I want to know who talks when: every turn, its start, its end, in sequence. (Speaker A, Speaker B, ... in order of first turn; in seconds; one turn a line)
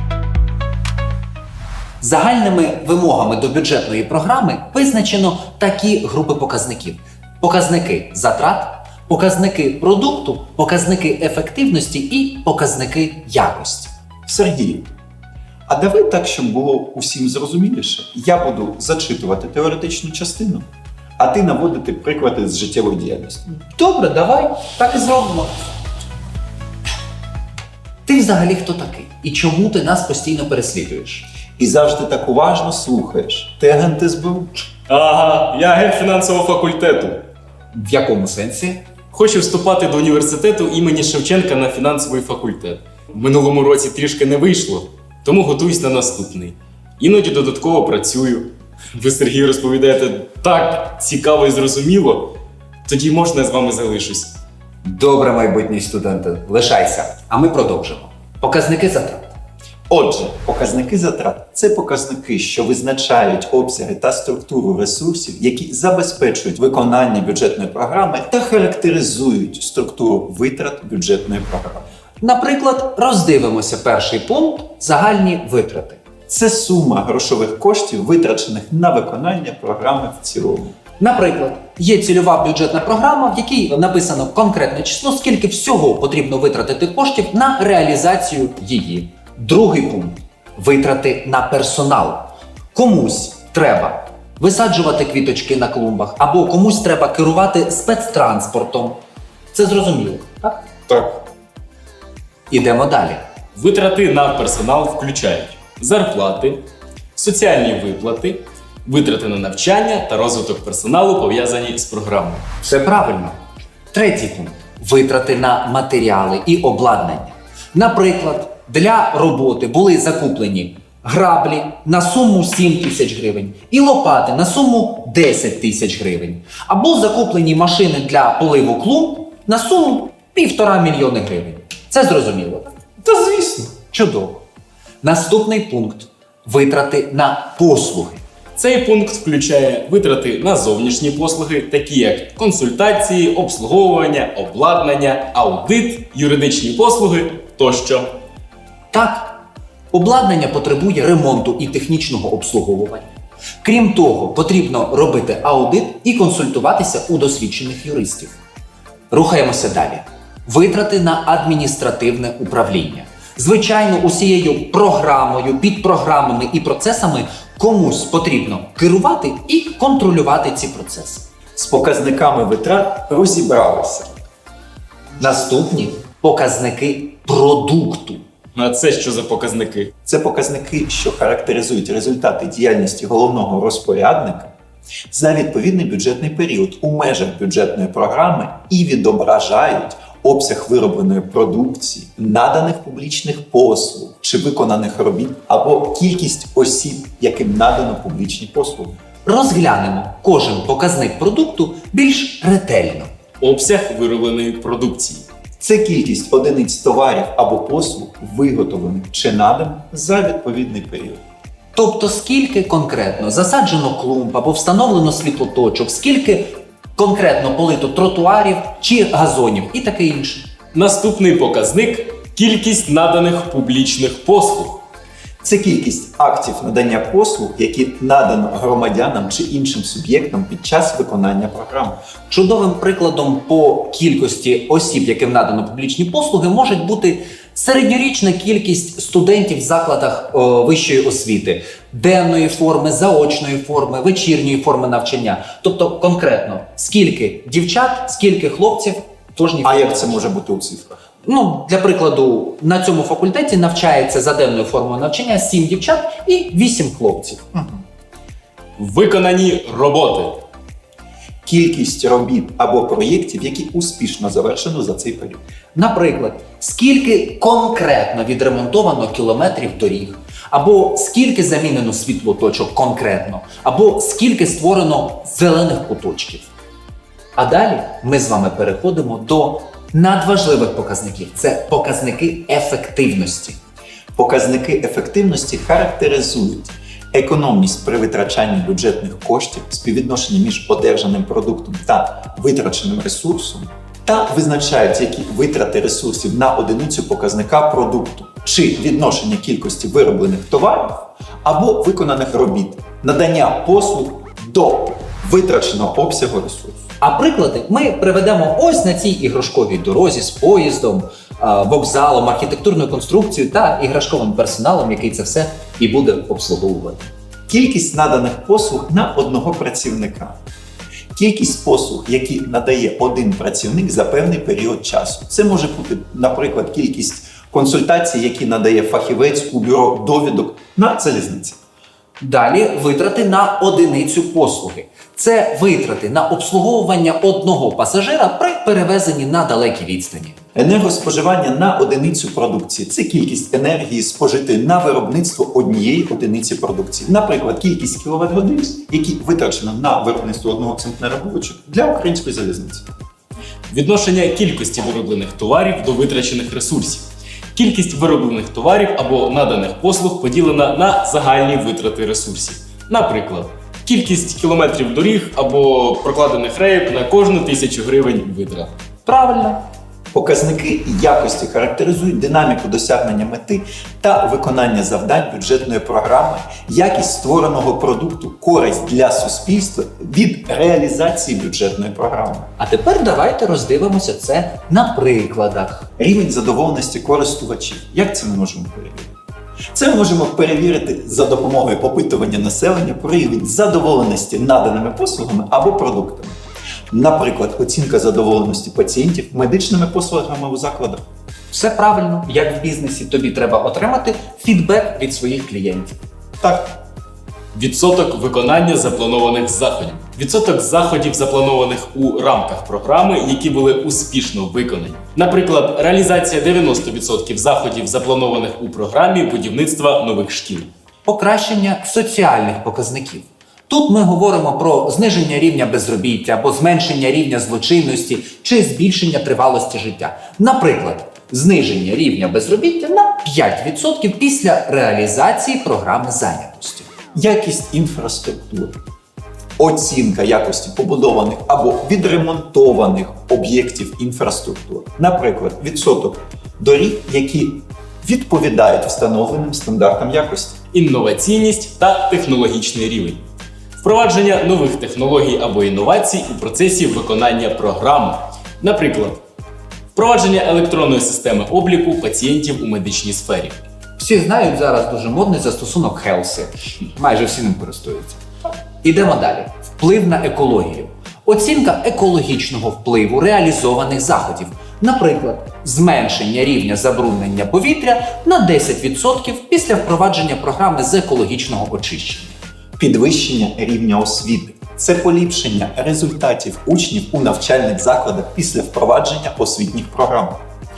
Speaker A: 2.0-13.9
Speaker B: 14.3-14.9
Speaker B: 15.7-20.7
Speaker B: 21.2-23.5
Speaker A: 23.5-25.7
Speaker A: 28.1-31.3
Speaker B: 31.6-34.5
Speaker C: 34.9-37.3
Speaker A: 37.7-38.8
Speaker C: 39.1-52.3
Speaker C: 52.9-54.4
Speaker A: 54.8-59.3
Speaker B: 59.9-71.9
Speaker A: 72.2-76.0
Speaker B: 76.3-80.8
Speaker A: 81.0-99.0
Speaker A: 99.5-100.7
Speaker A: 102.5-103.2
Speaker C: 103.6-106.6
Speaker C: 107.2-112.5
Speaker A: 112.6-113.4
Speaker A: 113.9-132.7
Speaker B: 133.0-133.7
Speaker A: 133.9-134.4
Speaker A: 135.0-138.2
Speaker C: 138.6-148.2
Speaker A: 148.9-158.4
Speaker A: 159.1-171.3
Speaker B: 171.6-174.2
Speaker A: 175.2-178.2
Speaker C: 178.6-179.9
Speaker B: 180.1-184.5
Speaker B: 185.1-199.0
Speaker A: 199.2-203.1
Speaker C: 203.4-205.2
Speaker B: 205.6-211.2
Speaker A: 211.7-220.5
Speaker C: 220.7-224.8
Speaker B: 225.4-232.0
Speaker A: 232.3-250.3
Speaker B: 249.6-251.0
Speaker A: 251.2-257.4
Speaker B: 257.5-257.8
Speaker C: 258.8-260.4
Speaker B: 261.4-265.4
Speaker A: 265.8-276.5
Speaker A: 277.4-283.6
Speaker B: 284.2-306.8
Speaker A: 307.0-317.1
Speaker B: 317.5-320.4
Speaker B: 321.1-331.6
Speaker A: 332.2-340.4
Speaker B: 340.6-352.9
Speaker C: 353.7-368.7
Speaker A: 369.1-369.6
Speaker B: 370.1-382.5
Speaker A: 382.6-385.9
Speaker B: 386.0-389.2
Speaker B: 389.7-396.4
Speaker B: 396.9-401.0
Speaker A: 401.5-406.0
Speaker B: 406.4-406.7
Speaker C: 407.5-420.7
Speaker A: 421.1-436.9
Speaker B: 437.1-438.8
Speaker B: 439.6-450.6
Speaker C: 450.7-453.2
Speaker C: 453.8-459.2
Speaker C: 459.9-463.6
Speaker A: 464.0-468.2
Speaker A: 468.8-482.4
Speaker B: 482.8-490.4